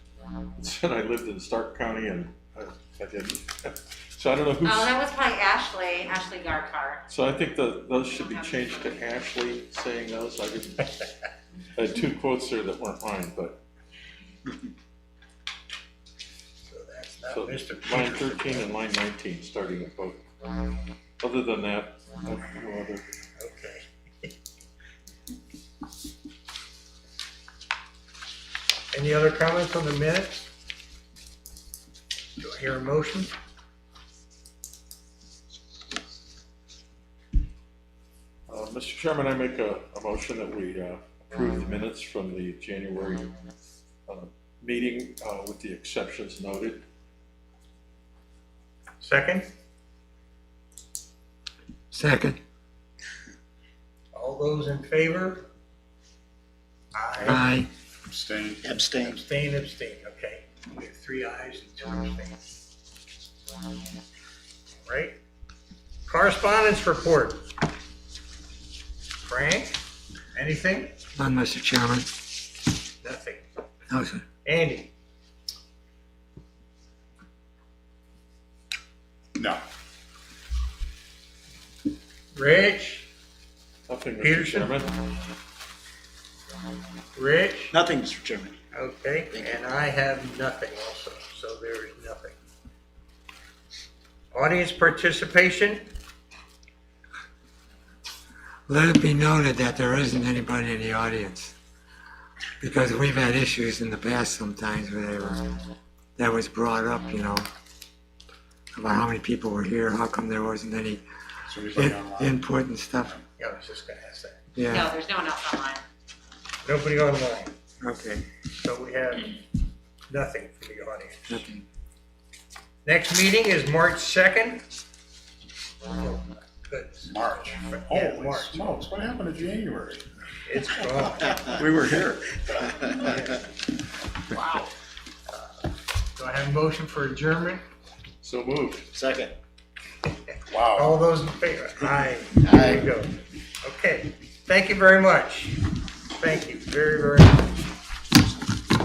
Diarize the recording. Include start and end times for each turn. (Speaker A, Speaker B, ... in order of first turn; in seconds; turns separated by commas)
Speaker A: 0.6-4.9, Speaker B: 4.6-7.0, Speaker A: 7.1-10.9, Speaker B: 8.2-8.7, Speaker A: 11.8-13.6, Speaker C: 16.6-18.7, Speaker A: 17.3-20.2, Speaker A: 21.2-23.1, Speaker C: 23.4-24.3, Speaker C: 28.9-30.5, Speaker C: 32.4-33.3, Speaker A: 38.5-43.3, Speaker A: 44.1-46.8, Speaker C: 49.0-49.5, Speaker D: 51.9-52.4, Speaker C: 54.1-55.5, Speaker C: 56.9-57.5, Speaker D: 57.2-57.7, Speaker E: 58.1-58.7, Speaker F: 58.6-59.2, Speaker C: 59.0-62.4, Speaker C: 64.9-65.2, Speaker C: 66.1-67.5, Speaker C: 69.2-69.8, Speaker C: 70.3-70.9, Speaker D: 71.2-72.1, Speaker C: 73.0-73.4, Speaker D: 73.9-74.2, Speaker C: 74.5-74.9, Speaker E: 79.4-79.6, Speaker C: 82.3-83.1, Speaker A: 83.9-85.0, Speaker C: 84.2-84.8, Speaker C: 87.2-87.7, Speaker F: 87.7-88.6, Speaker C: 88.7-92.4, Speaker F: 89.3-89.6, Speaker C: 94.3-95.9, Speaker D: 98.7-101.5, Speaker D: 102.6-105.6, Speaker D: 106.2-107.5, Speaker D: 108.8-111.0, Speaker E: 111.5-112.4, Speaker D: 111.7-113.2, Speaker C: 113.4-114.4, Speaker D: 114.5-114.9, Speaker B: 114.7-115.8, Speaker C: 116.6-117.5, Speaker D: 117.8-118.3, Speaker C: 118.5-119.4, Speaker C: 120.1-121.5, Speaker D: 121.3-121.7, Speaker C: 122.8-124.6, Speaker C: 125.9-128.8, Speaker E: 127.1-130.1, Speaker C: 130.5-131.4, Speaker A: 131.4-132.7, Speaker C: 132.8-133.4, Speaker C: 136.2-137.6, Speaker A: 138.2-138.9, Speaker F: 138.9-139.3, Speaker E: 140.5-141.0, Speaker C: 140.7-145.6, Speaker F: 142.4-142.8, Speaker C: 146.1-147.6